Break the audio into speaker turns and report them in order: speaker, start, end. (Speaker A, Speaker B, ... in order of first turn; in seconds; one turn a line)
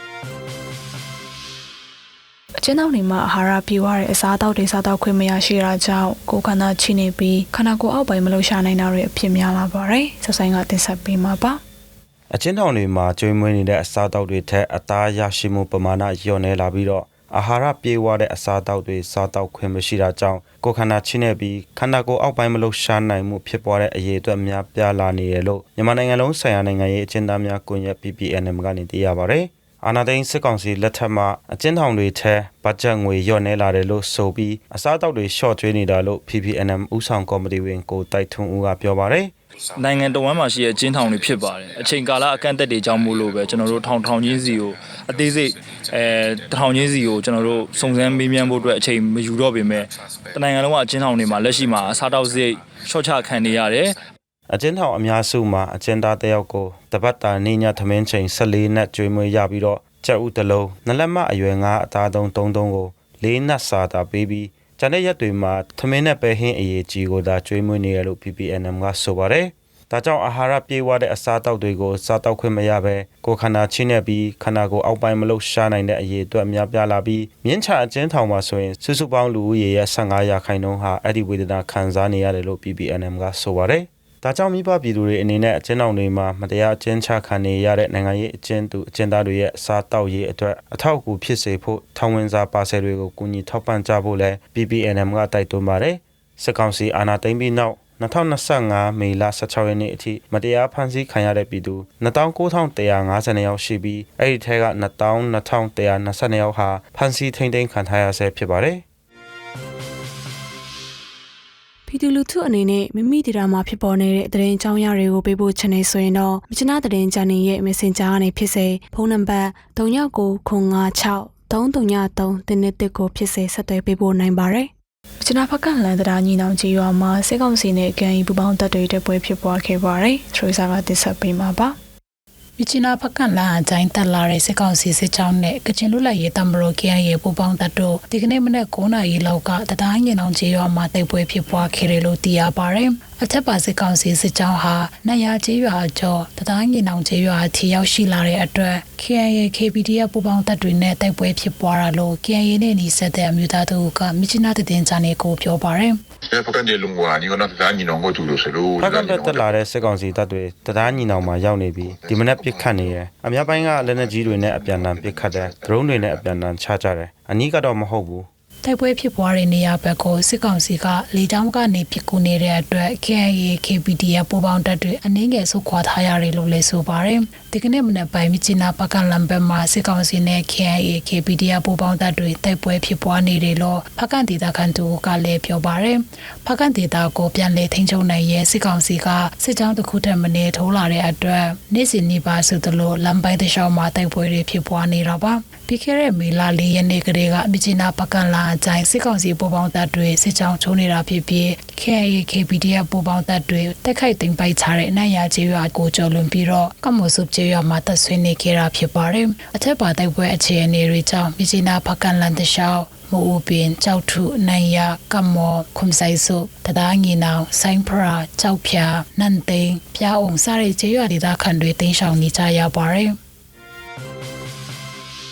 Speaker A: 2.6-11.6
Speaker B: 12.3-39.3
Speaker C: 39.8-54.0
Speaker B: 54.5-108.8
Speaker A: 111.9-124.7
Speaker A: 125.2-131.7
Speaker D: 132.6-156.0
Speaker E: 156.3-159.5
Speaker B: 158.8-168.3
Speaker E: 162.0-162.4
Speaker D: 168.6-223.2